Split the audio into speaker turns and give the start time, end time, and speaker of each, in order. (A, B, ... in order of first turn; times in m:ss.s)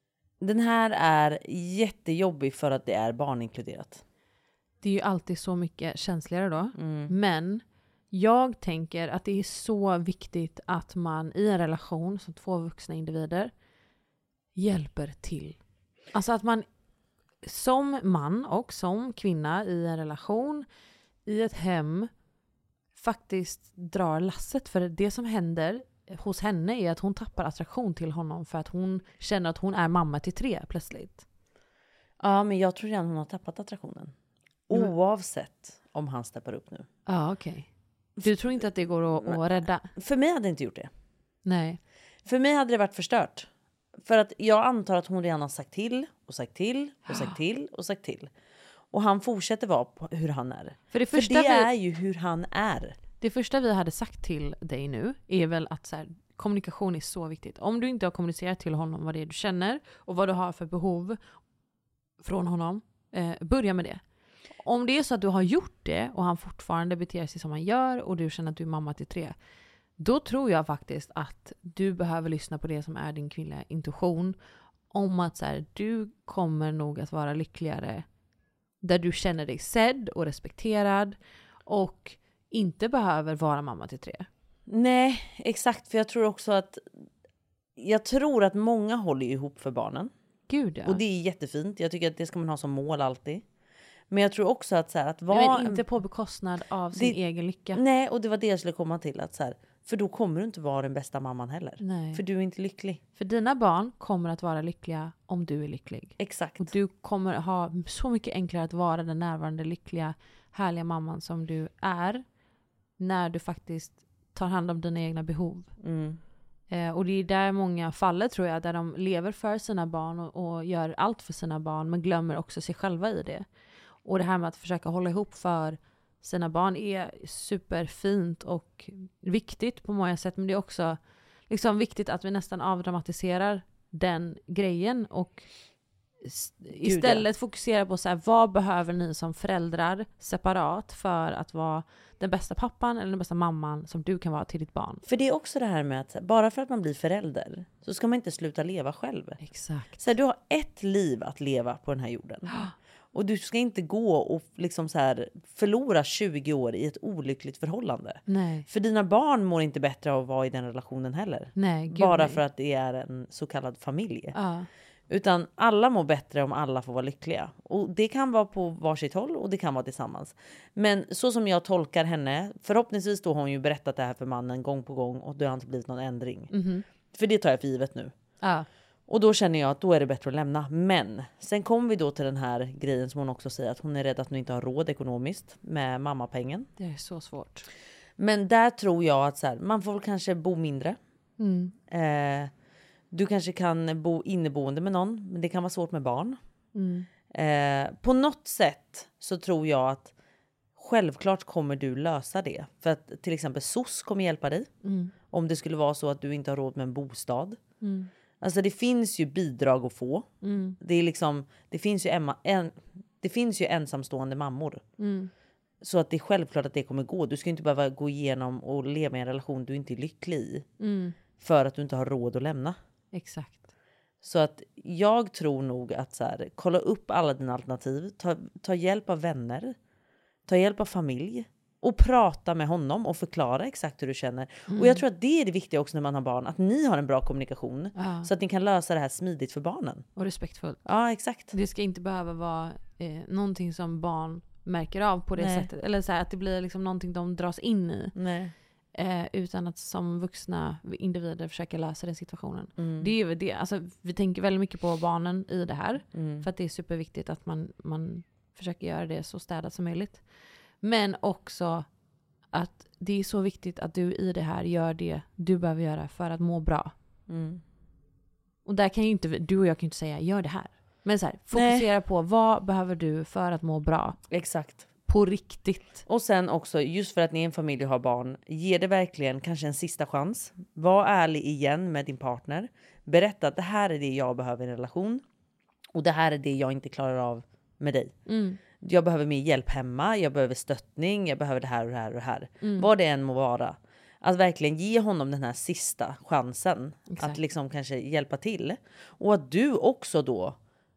0:00.4-0:04.0 A
0:04.8-0:13.5 B
0:06.8-0:07.1 A
0:14.6-0:15.6 B
0:16.1-0:16.7 B
0:17.4-0:20.7 B
0:21.3-0:22.1 B
0:23.0-0:31.2 B
0:32.2-0:34.1 A
0:34.7-0:36.9 A
0:37.1-0:39.9 B
0:40.0-0:40.9 A
0:41.4-0:41.8 B
0:42.3-0:43.5 A
0:44.0-0:48.3 A
0:47.1-0:47.4 B
0:48.9-0:53.0 A
0:50.9-0:51.7 B
0:53.2-1:01.2 B
1:02.2-1:04.0 B
1:04.6-1:09.4 B
1:10.0-1:14.4 B
1:14.9-1:18.0 B
1:18.8-1:24.3 B
1:24.7-1:26.8 A
1:27.8-1:30.1 A
1:30.5-1:31.0 B
1:30.8-1:33.4 A
1:34.1-1:35.8 A
1:35.3-1:37.8 B
1:37.7-1:43.0 A
1:41.8-1:42.2 B
1:43.2-1:52.2 B
1:46.2-1:46.7 A
1:53.0-1:55.7 B
1:55.8-1:56.2 A
1:56.7-2:03.4 B
2:04.0-2:11.0 B
2:11.5-2:15.5 B
2:16.2-2:25.0 B
2:16.8-2:17.3 A
2:25.1-2:29.4 A
2:29.4-2:30.0 B
2:30.0-2:32.6 A
2:33.1-2:44.4 A
2:38.3-2:38.7 B
2:41.6-2:42.4 B
2:44.3-2:44.7 B
2:45.1-2:56.5 A
2:56.5-2:56.8 B
2:57.1-2:58.1 A
2:58.4-2:58.7 B
2:59.1-3:06.7 A
3:06.8-3:07.7 B
3:08.2-3:11.0 A
3:11.4-3:11.8 B
3:11.9-3:12.5 A
3:13.1-3:16.4 A
3:16.7-3:17.1 B
3:17.3-3:20.1 A
3:20.8-3:24.7 A
3:24.8-3:25.1 B
3:25.3-3:27.6 A
3:27.8-3:28.1 B
3:28.4-3:30.3 A
3:30.4-3:30.8 B
3:30.8-3:34.8 A
3:35.0-3:35.3 B
3:35.8-3:40.7 A
3:40.8-3:41.2 B
3:41.4-3:42.8 A
3:43.1-3:43.7 B
3:44.2-3:49.8 A
3:50.5-4:00.0 A
3:54.7-3:55.0 B
3:58.0-3:58.3 B
4:00.2-4:00.8 B
4:00.8-4:01.5 A
4:01.5-4:08.1 B
4:05.4-4:05.7 A
4:08.2-4:08.5 A
4:09.0-4:20.2 B
4:12.8-4:13.1 A
4:16.1-4:16.5 A
4:20.8-4:21.9 B
4:22.5-4:26.9 B
4:27.3-4:27.6 A
4:28.6-4:34.2 B
4:31.5-4:31.9 A
4:34.3-4:34.9 A
4:35.1-4:36.0 B
4:36.1-4:45.2 A
4:45.9-4:48.1 A
4:48.3-4:48.6 B
4:48.8-5:00.6 A
4:52.6-4:52.9 B
4:57.1-4:57.4 B